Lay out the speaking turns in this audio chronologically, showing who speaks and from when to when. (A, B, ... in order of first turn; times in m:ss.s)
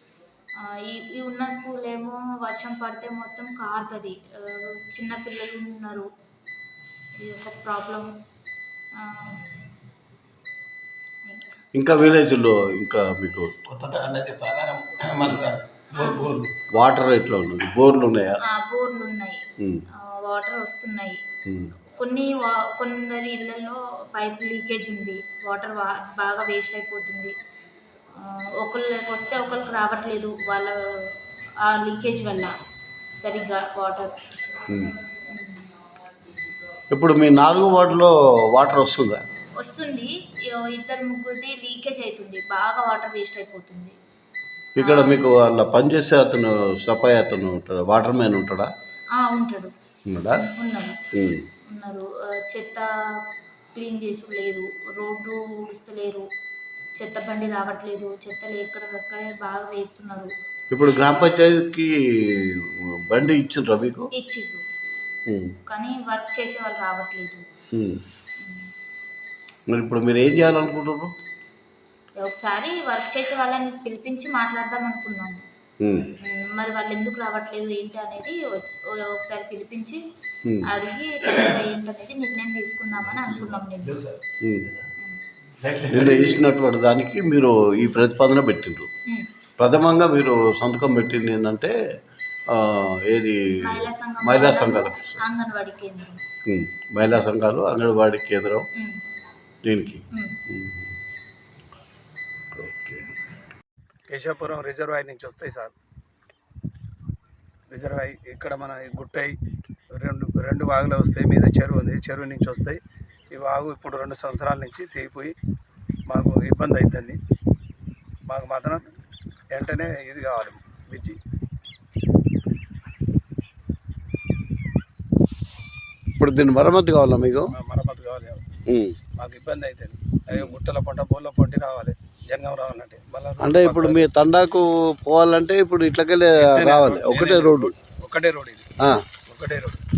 0:00.6-0:06.1 A
0:07.2-0:08.1 A
0:09.0-0:09.5 A
0:11.2-0:11.6 A
0:11.7-0:13.5 B
0:13.7-0:16.7 C
0:15.9-0:16.2 A
0:16.7-0:18.4 B
0:18.4-0:19.4 A
0:19.9-0:21.2 A
0:21.5-0:21.7 B
0:21.9-0:27.3 A
0:28.2-0:31.1 A
0:31.6-0:32.5 A
0:33.2-0:34.2 A
0:34.7-0:35.0 B
0:35.3-0:35.6 A
0:36.9-0:39.2 B
0:39.6-0:44.0 A
0:44.8-0:48.7 B
0:44.8-0:45.2 A
0:49.2-0:49.7 A
0:50.1-0:50.4 B
0:50.3-0:51.0 A
0:51.1-0:51.5 B
0:51.7-0:53.2 A
0:53.7-0:56.3 A
0:57.0-1:00.3 A
1:00.7-1:04.1 B
1:04.1-1:04.6 A
1:05.2-1:05.5 B
1:05.7-1:07.5 A
1:07.7-1:08.0 B
1:08.4-1:08.7 A
1:09.7-1:11.1 B
1:12.2-1:15.4 A
1:15.8-1:16.1 B
1:16.2-1:20.0 A
1:20.6-1:23.9 A
1:23.0-1:24.9 C
1:25.6-1:26.4 C
1:25.9-1:28.9 B
1:29.6-1:31.7 B
1:32.5-1:35.2 B
1:33.6-1:36.2 A
1:36.4-1:38.6 B
1:38.8-1:39.0 A
1:39.6-1:40.9 B
1:40.1-1:40.4 A
1:42.5-1:43.0 B
1:44.1-1:45.7 C
1:47.7-1:49.4 C
1:50.0-1:52.8 C
1:53.3-1:55.3 C
1:56.1-1:57.2 C
1:58.3-1:58.8 C
1:59.5-2:01.2 C
2:06.2-2:07.5 B
2:07.5-2:08.4 C
2:08.7-2:09.0 B
2:09.2-2:14.0 C
2:13.4-2:17.7 B
2:16.4-2:19.8 C
2:18.8-2:19.1 B